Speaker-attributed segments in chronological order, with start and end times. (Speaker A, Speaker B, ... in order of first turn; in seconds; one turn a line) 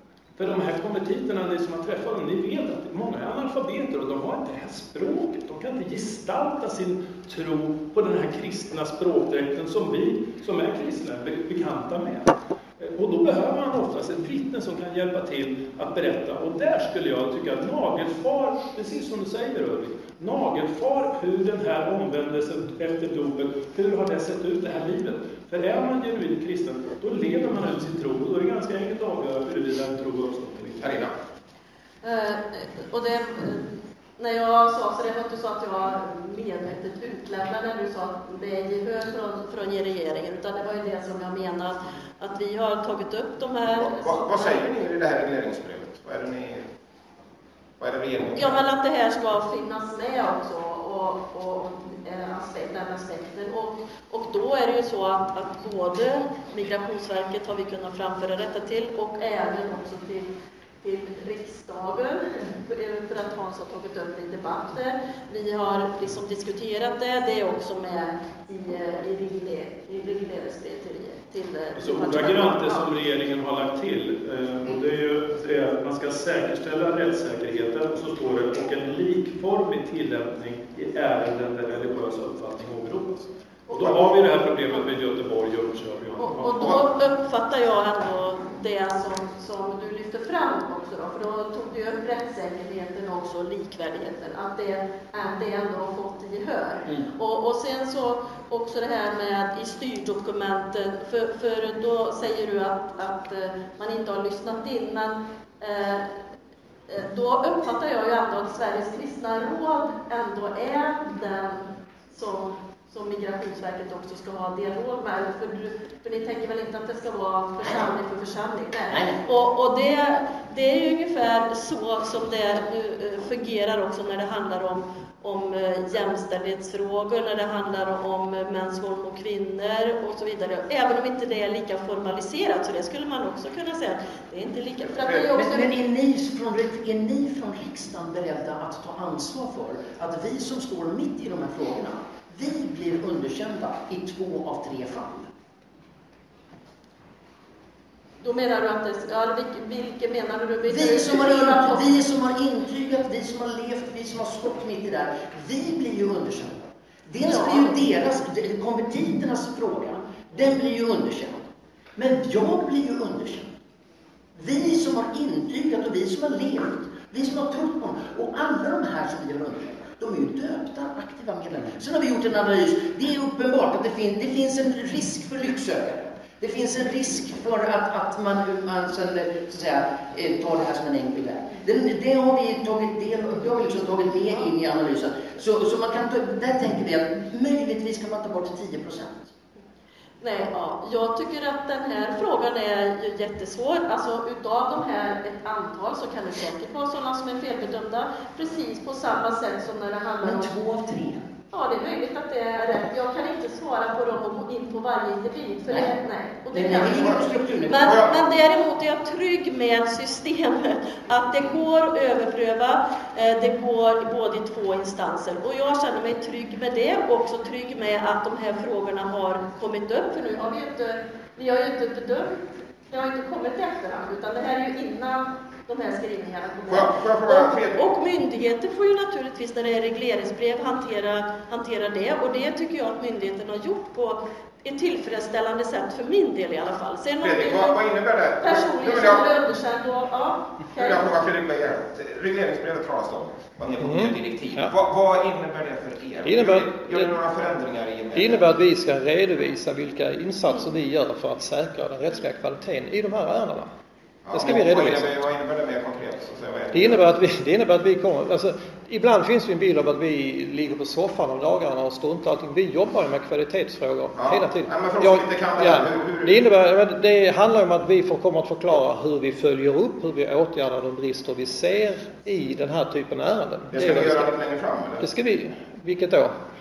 Speaker A: 0.4-31.0
Speaker B: 30.8-31.1
Speaker C: 32.0-44.6
Speaker B: 43.7-46.7
Speaker B: 47.8-48.6
Speaker C: 48.4-60.3
Speaker C: 60.8-72.9
Speaker A: 71.8-86.7
Speaker C: 86.2-106.0
Speaker C: 106.9-135.7
Speaker D: 117.6-117.9
Speaker D: 118.9-119.2
Speaker D: 135.0-145.3
Speaker C: 148.2-151.8
Speaker D: 150.7-163.6
Speaker C: 157.3-157.8
Speaker D: 164.3-189.3
Speaker C: 190.2-200.6
Speaker D: 200.2-201.3
Speaker C: 201.5-222.4
Speaker D: 206.5-208.1
Speaker B: 206.8-207.2
Speaker C: 222.9-237.8
Speaker B: 226.7-227.9
Speaker B: 237.2-239.3
Speaker C: 238.4-241.1
Speaker B: 240.7-248.5
Speaker E: 243.8-244.7
Speaker E: 246.2-247.1
Speaker E: 248.2-253.7
Speaker B: 254.2-257.0
Speaker E: 254.3-255.1
Speaker E: 256.7-274.3
Speaker B: 264.2-266.4
Speaker B: 273.7-275.1
Speaker E: 275.0-276.3